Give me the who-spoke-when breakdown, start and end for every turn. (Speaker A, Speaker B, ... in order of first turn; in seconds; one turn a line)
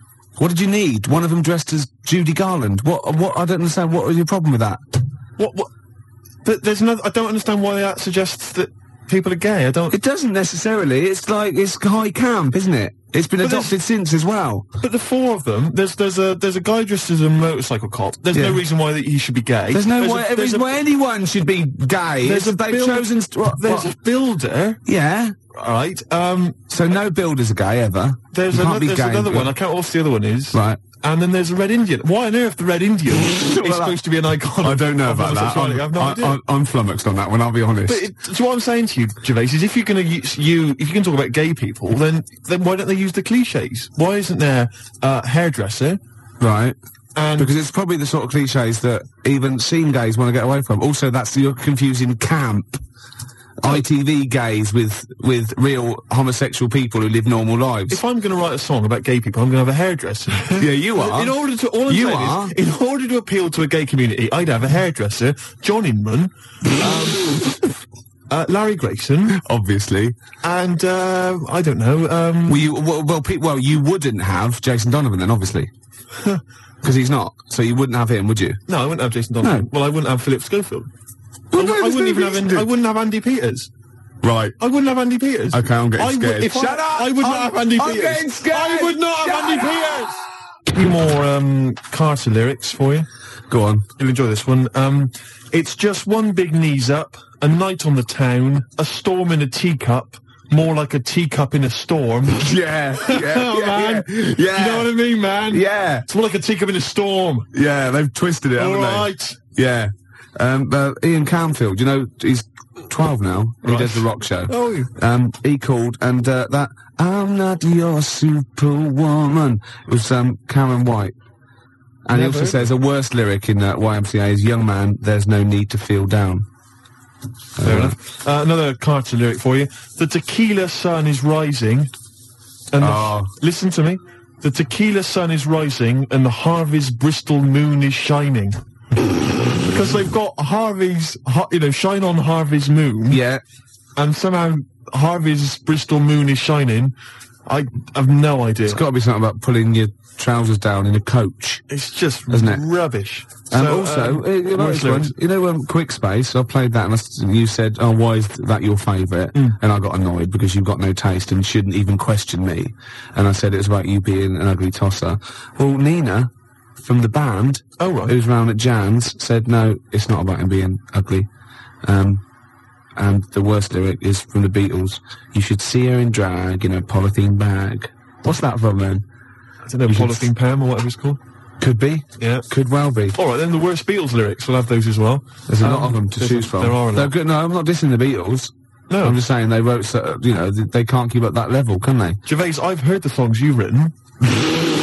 Speaker A: 0.4-4.8
Speaker B: 5.4-5.7
Speaker B: 6.4-10.0
Speaker A: 9.9-14.7
Speaker B: 13.4-13.7
Speaker B: 14.8-20.8
Speaker A: 18.3-18.6
Speaker A: 19.7-23.9
Speaker B: 22.2-24.8
Speaker A: 24.9-25.4
Speaker B: 25.5-26.6
Speaker A: 26.7-29.5
Speaker B: 28.3-36.4
Speaker A: 30.5-30.8
Speaker A: 33.1-34.0
Speaker A: 34.6-38.1
Speaker B: 37.9-46.0
Speaker A: 46.4-46.8
Speaker B: 47.1-47.5
Speaker A: 47.4-52.8
Speaker A: 53.6-58.0
Speaker B: 57.9-67.8
Speaker A: 60.6-61.4
Speaker A: 61.9-62.5
Speaker B: 68.3-69.4
Speaker A: 69.3-70.2
Speaker B: 70.4-72.7
Speaker A: 72.5-75.7
Speaker B: 76.1-76.4
Speaker A: 76.8-78.6
Speaker B: 78.7-80.9
Speaker A: 79.4-79.7
Speaker A: 81.5-82.7
Speaker B: 81.5-83.7
Speaker A: 84.2-84.6
Speaker B: 84.6-93.1
Speaker A: 85.5-90.1
Speaker A: 93.5-93.9
Speaker B: 94.0-107.5
Speaker A: 102.3-104.9
Speaker A: 105.5-106.1
Speaker A: 107.5-121.2
Speaker B: 108.6-109.4
Speaker B: 113.6-114.9
Speaker A: 122.1-126.5
Speaker B: 122.1-122.7
Speaker A: 127.6-128.0
Speaker B: 127.6-131.9
Speaker B: 132.7-138.6
Speaker A: 132.8-133.3
Speaker B: 139.6-143.2
Speaker A: 143.1-143.4
Speaker B: 144.0-146.9
Speaker B: 147.5-148.8
Speaker A: 148.7-151.6
Speaker B: 151.7-155.2
Speaker A: 152.3-152.7
Speaker A: 153.5-171.3
Speaker B: 167.8-168.2
Speaker A: 171.8-172.2
Speaker A: 173.0-179.1
Speaker B: 179.7-181.2
Speaker A: 179.9-180.3
Speaker A: 181.6-183.2
Speaker B: 182.2-182.5
Speaker B: 183.1-187.2
Speaker A: 185.5-192.2
Speaker B: 188.9-189.2
Speaker B: 192.2-193.9